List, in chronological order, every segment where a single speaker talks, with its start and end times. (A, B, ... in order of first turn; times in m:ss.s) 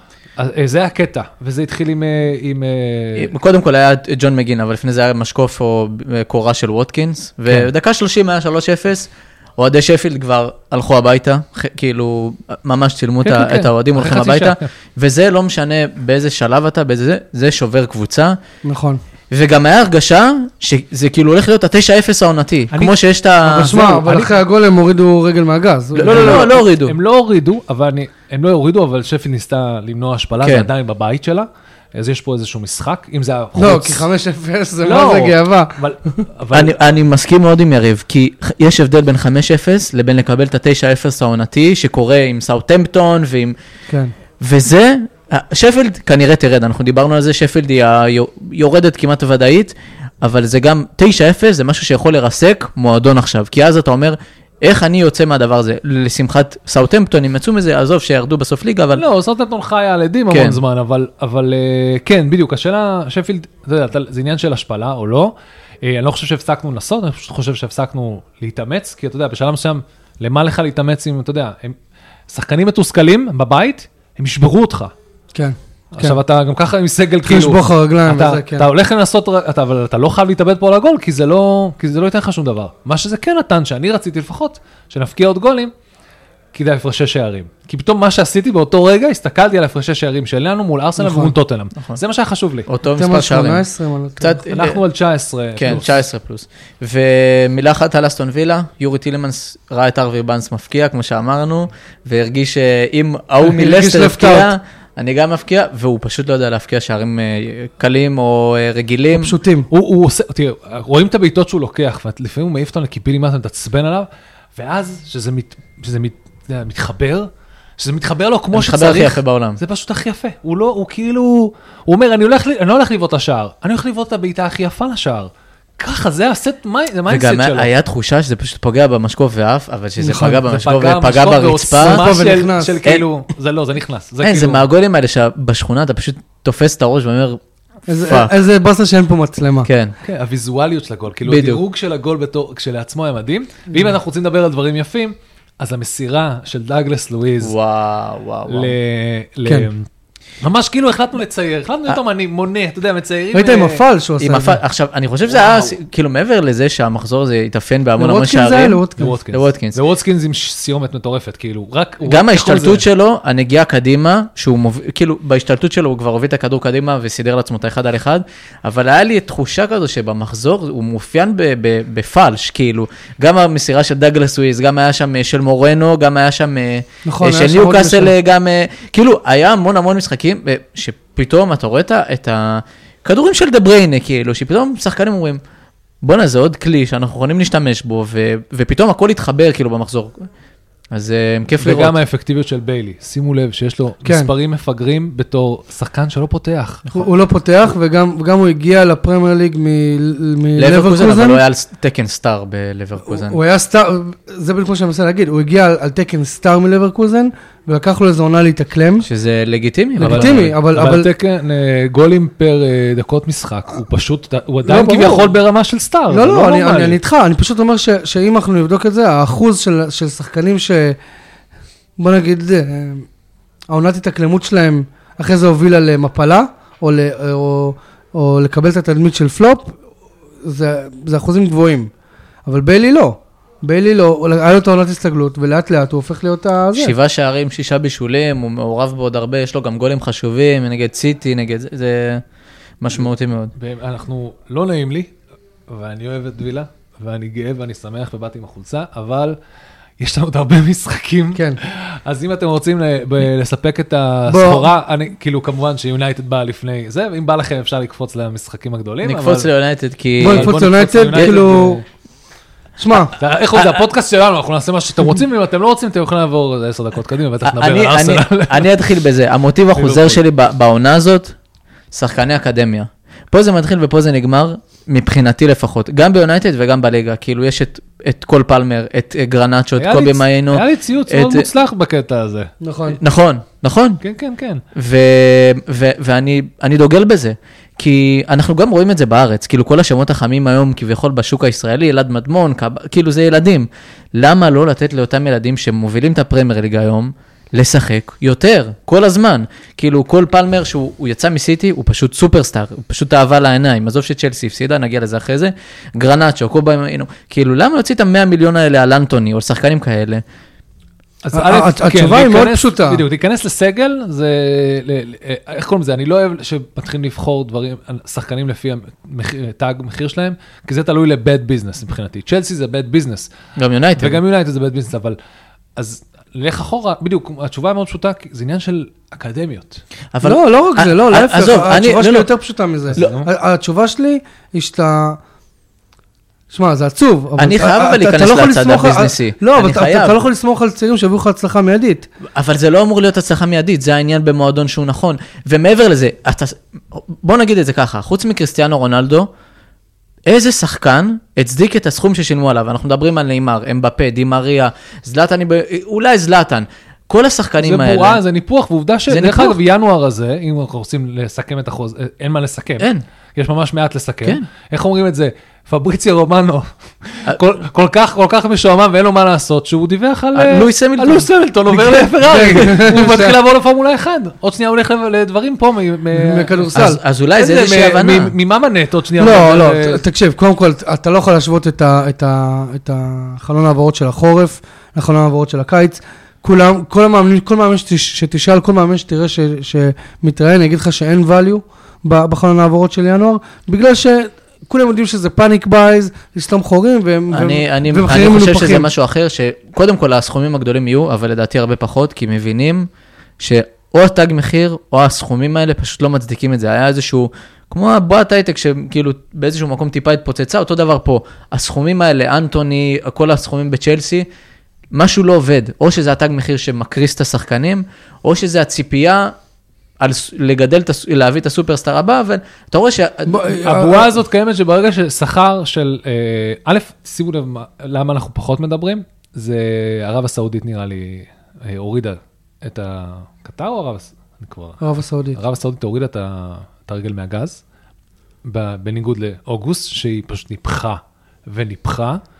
0:00.4-0:03.3 A
0:03.2-0:18.4 B
0:13.2-0:14.7 A
0:18.6-0:19.0 C
0:19.3-0:24.0 B
0:22.7-0:23.0 A
0:23.4-0:26.6 C
0:23.6-0:24.4 A
0:26.0-0:27.0 B
0:26.0-0:34.0 A
0:30.4-0:30.7 B
0:33.6-0:36.2 C
0:34.8-0:36.8 A
0:36.5-0:43.5 B
0:44.4-0:59.0 B
0:59.0-1:11.8 A
1:00.3-1:00.6 B
1:12.3-1:14.9 A
1:15.3-1:16.2 C
1:15.9-1:25.7 A
1:17.2-1:18.6 C
1:26.5-1:32.7 A
1:31.0-1:31.3 C
1:32.7-1:33.6 B
1:33.0-1:34.4 C
1:34.2-1:34.8 B
1:34.5-1:35.9 A
1:35.6-1:49.4 B
1:43.4-1:44.5 C
1:49.1-1:49.7 C
1:49.7-2:07.7 A
1:58.5-1:59.6 B
2:07.1-2:12.0 B
2:10.0-2:10.5 C
2:10.5-2:14.6 A
2:11.8-2:12.8 C
2:14.2-2:17.4 B
2:17.9-2:19.7 C
2:18.0-2:18.3 B
2:19.6-2:19.9 B
2:20.0-2:27.5 A
2:21.2-2:21.6 B
2:27.4-2:28.7 B
2:28.5-2:29.8 A
2:30.4-2:33.8 A
2:33.3-2:34.6 C
2:34.2-2:39.8 B
2:38.0-2:39.1 C
2:39.0-2:42.8 A
2:42.0-3:05.4 B
2:57.0-2:58.1 C
3:06.0-3:10.3 B
3:10.9-3:11.9 B
3:11.6-3:16.8 A
3:14.0-3:14.3 C
3:16.9-3:21.4 C
3:20.6-3:23.4 B
3:23.1-3:29.1 C
3:29.0-3:30.5 B
3:30.0-3:31.1 C
3:30.0-3:37.0 A
3:34.6-3:35.3 C
3:36.1-3:41.0 C
3:42.0-3:43.1 C
3:43.7-3:49.8 C
3:50.4-3:51.9 C
3:52.4-3:56.9 C
3:56.8-4:02.2 B
4:02.8-4:03.5 B
4:03.6-4:05.1 A
4:05.7-4:09.4 A
4:10.0-4:19.5 A
4:14.3-4:14.7 C
4:19.0-4:20.6 B
4:20.2-4:21.8 C
4:20.2-4:21.8 A
4:21.1-4:21.5 B
4:22.8-4:23.1 C
4:23.0-4:28.8 A
4:23.5-4:23.8 B
4:27.4-4:31.3 B
4:29.7-4:30.2 A
4:31.9-4:41.4 B
4:39.8-4:42.5 A
4:42.6-4:43.0 C
4:42.9-4:44.0 B
4:44.0-4:44.6 A
4:44.7-5:10.2 B
5:11.2-5:23.3 A
5:11.3-5:13.0 C
5:23.6-5:24.2 B
5:24.0-5:25.2 A
5:25.8-5:29.8 A
5:30.1-5:32.3 B
5:30.2-5:35.2 C
5:32.9-5:33.3 A
5:36.5-5:42.1 C
5:37.4-5:40.2 B
5:42.3-5:49.3 B
5:50.2-5:58.2 B
5:57.6-6:16.6 A
5:59.1-5:59.6 B
6:10.3-6:11.3 B
6:11.7-6:13.4 C
6:16.1-6:17.0 C
6:16.7-6:18.3 B
6:17.3-6:20.0 A
6:19.2-6:38.9 C
6:37.3-6:42.9 B
6:43.4-6:54.2 B
6:54.9-6:59.3 B
7:00.0-7:03.4 B
7:03.2-7:04.1 C
7:03.5-7:14.8 A
7:14.8-7:15.4 C
7:15.3-7:17.6 A
7:18.4-7:22.2 A